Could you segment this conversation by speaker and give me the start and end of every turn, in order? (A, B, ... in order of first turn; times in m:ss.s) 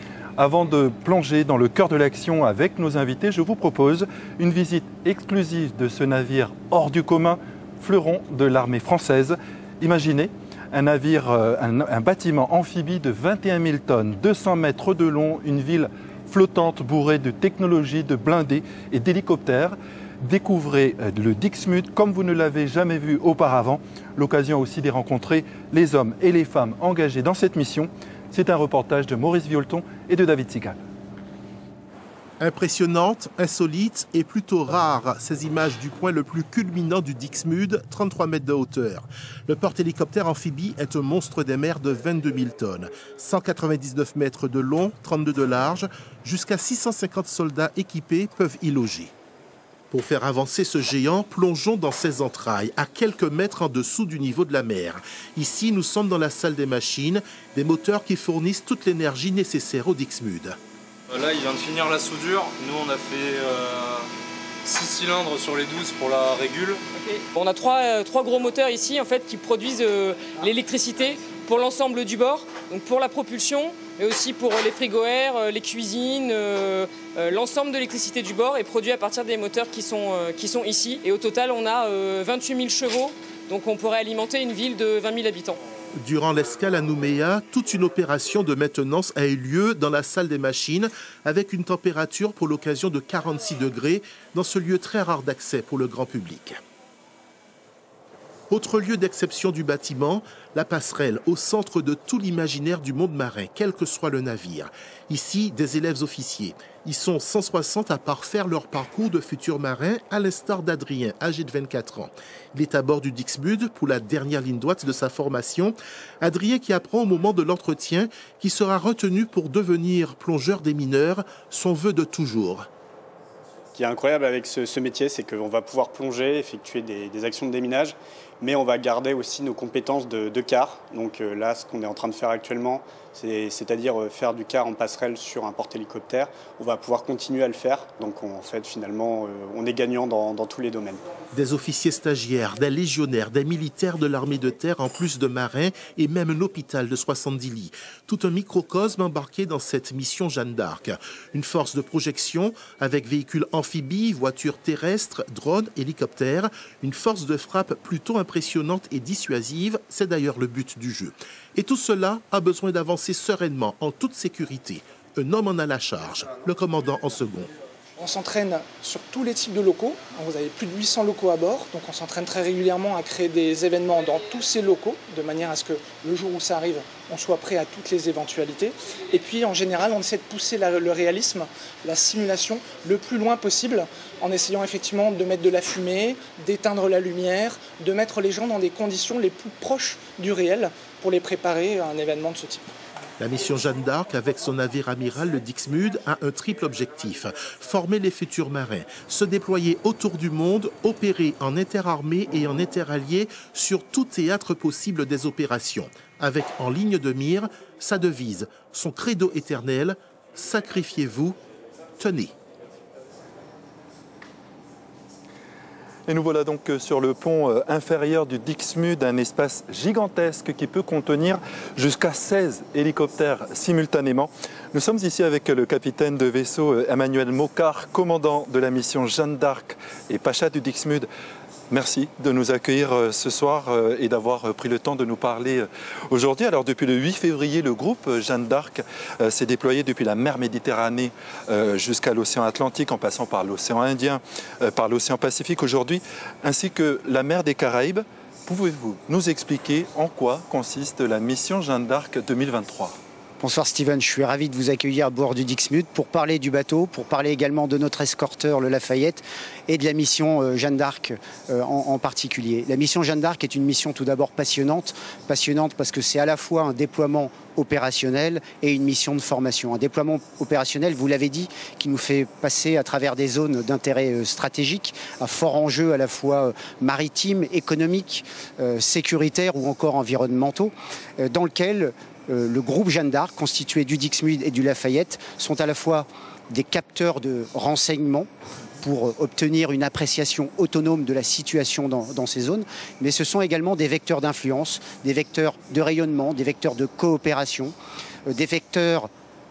0:00.4-0:30.8 A
0:32.4-0:49.1 B
0:49.9-1:00.6 B
1:01.1-1:04.1 C
1:04.6-1:06.8 C
1:06.9-1:25.6 D
1:25.9-1:36.6 B
1:38.5-2:02.7 B
2:03.8-2:21.0 E
2:21.3-2:47.5 B
2:48.0-3:12.7 F
3:13.2-3:31.4 B
3:32.0-3:32.3 B
3:36.1-3:51.1 A
3:51.7-4:13.0 A
4:13.4-4:48.3 G
4:48.8-4:57.7 G
4:58.3-4:59.1 G